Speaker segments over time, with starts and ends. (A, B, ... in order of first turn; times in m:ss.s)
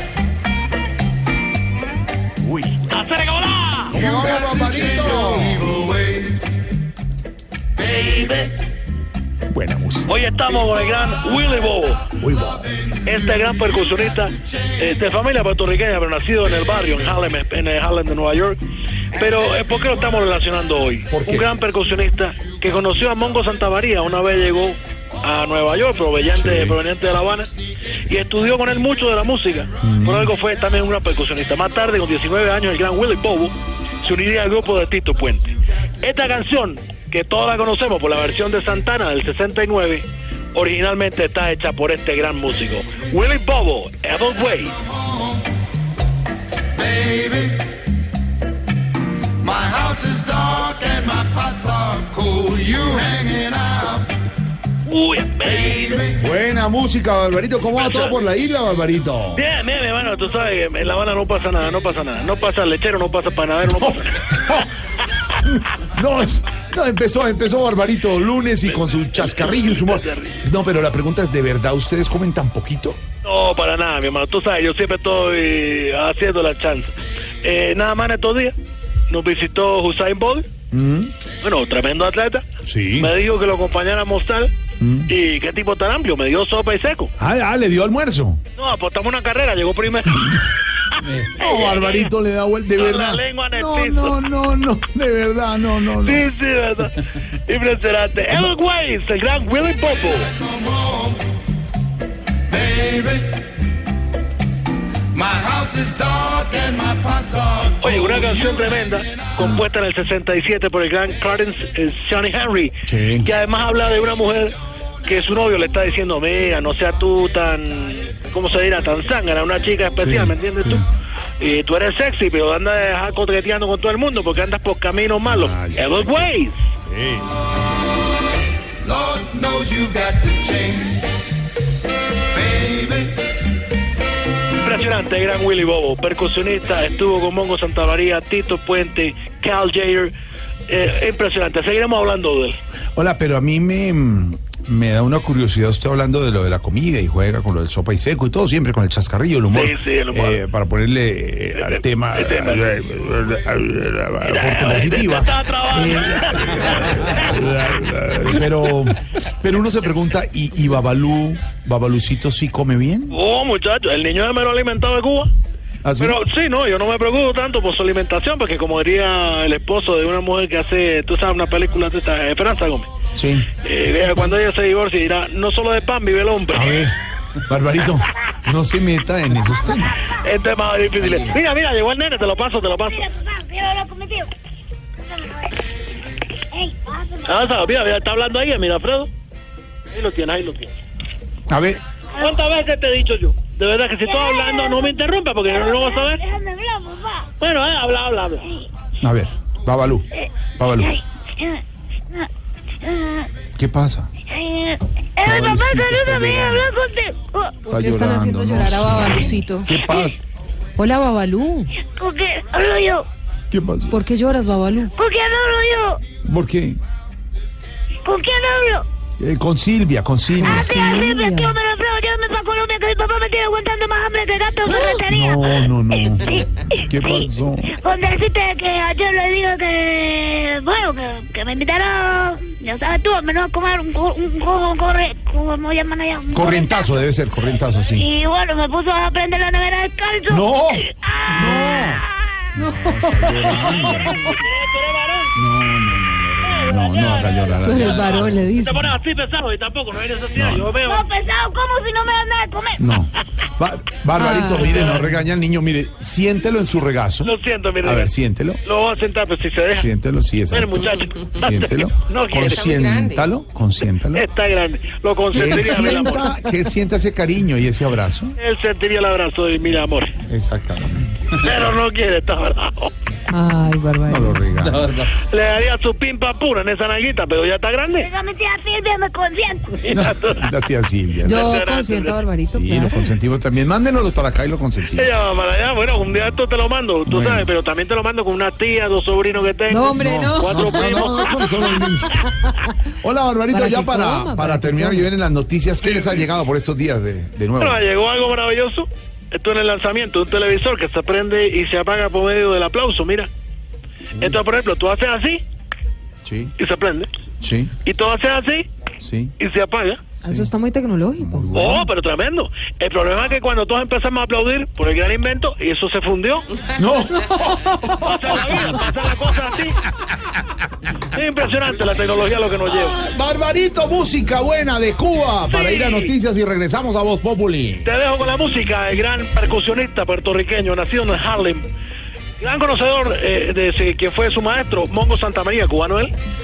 0:02.4-0:03.0 A
0:02.9-0:04.0 B
0:03.9-0:05.8 A
0:07.8-0:08.6 B
0:09.5-0:10.1 A
0:10.1-0:12.1 B
0:12.2-0:12.7 A
0:13.0-0:18.6 B
0:19.1-0:27.5 B
0:21.1-0:21.5 A
0:26.4-0:26.8 A
0:28.1-0:44.8 B
0:29.8-0:30.3 A
0:50.2-0:53.9 C
0:54.8-0:56.1 B
0:56.1-0:59.4 A
0:57.8-0:58.2 B
0:59.3-1:04.6 B
1:03.6-1:04.7 A
1:05.3-1:13.0 A
1:08.6-1:10.4 B
1:13.2-1:18.5 B
1:19.1-1:20.5 B
1:20.7-1:21.1 A
1:21.4-1:22.4 B
1:22.6-1:23.1 A
1:23.0-1:24.5 B
1:24.8-1:25.1 A
1:25.0-1:27.1 B
1:27.2-1:28.4 A
1:28.6-1:32.1 B
1:31.3-1:36.2 A
1:32.7-1:34.2 B
1:36.0-1:40.4 B
1:45.9-1:47.4 C
1:47.6-2:00.8 B
1:52.9-1:53.3 A
2:00.0-2:00.8 A
2:01.4-2:06.6 B
2:05.2-2:06.3 A
2:06.8-2:07.3 A
2:09.1-2:10.2 C
2:14.6-2:20.1 B
2:20.7-2:22.6 B
2:23.0-2:43.2 A
2:29.5-2:30.4 B
2:31.5-2:32.7 B
2:34.2-2:37.4 B
2:43.1-2:45.3 B
2:45.8-2:46.2 A
2:46.0-2:52.9 B
2:53.2-2:53.5 A
2:53.6-2:56.9 B
2:56.5-3:00.0 A
3:00.2-3:03.0 B
3:02.8-3:04.3 D
3:05.0-3:05.6 D
3:06.5-3:07.7 D
3:07.2-3:09.1 B
3:09.9-3:10.7 B
3:11.5-3:11.8 A
3:12.2-3:16.2 B
3:14.0-3:17.3 D
3:17.4-3:18.4 B
3:19.0-3:20.9 A
3:20.1-3:22.3 D
3:22.8-3:23.3 D
3:23.5-3:24.1 A
3:24.3-3:27.6 D
3:25.2-3:26.7 A
3:27.6-3:29.7 E
3:27.7-3:30.2 A
3:29.8-3:30.1 D
3:30.8-3:31.7 E
3:31.8-3:33.1 D
3:33.5-3:34.0 A
3:33.9-3:34.9 E
3:35.0-3:36.0 D
3:36.2-3:36.8 A
3:38.0-3:38.9 D
3:39.2-3:40.8 A
3:40.4-3:57.0 D
3:40.4-3:41.5 E
3:45.1-3:47.8 A
3:56.3-3:58.0 A
3:57.9-4:02.5 D
4:00.3-4:02.0 A
4:01.5-4:01.8 E
4:02.5-4:04.3 A
4:02.6-4:04.3 E
4:03.5-4:05.4 B
4:05.3-4:08.4 A
4:06.4-4:11.1 B
4:07.6-4:08.9 E
4:10.3-4:10.7 A
4:10.8-4:12.8 D
4:12.8-4:18.6 A
4:14.2-4:15.1 E
4:17.2-4:18.1 B
4:18.6-4:19.9 B
4:19.7-4:24.2 A
4:20.5-4:22.8 B
4:24.1-4:26.3 B
4:25.3-4:28.4 A
4:28.4-4:30.1 B
4:30.3-4:31.2 A
4:31.3-4:32.9 B
4:33.3-4:34.4 E
4:34.0-4:35.0 A
4:35.2-4:38.1 B
4:38.0-4:39.8 D
4:39.8-4:40.5 B
4:39.9-4:41.6 A
4:41.2-4:43.1 E
4:41.2-4:42.2 B
4:42.5-4:45.1 A
4:44.9-4:51.4 B
4:47.1-4:47.5 A
4:49.7-4:51.9 E
4:50.0-4:52.3 A
4:52.9-4:57.8 A
4:53.5-4:55.1 E
4:55.8-4:56.3 B
4:57.6-5:03.3 B
5:04.2-5:05.4 B
5:06.2-5:06.5 A
5:06.6-5:07.1 B
5:07.4-5:07.7 A
5:07.8-5:08.7 B
5:09.0-5:09.3 A
5:09.4-5:10.0 B
5:10.2-5:11.6 E
5:11.2-5:11.9 A
5:11.5-5:16.4 B
5:16.7-5:18.8 A
5:18.0-5:19.8 B
5:21.1-5:23.0 B
5:22.7-5:27.9 A
5:25.5-5:26.1 B
5:27.8-5:31.6 B
5:32.4-5:36.1 B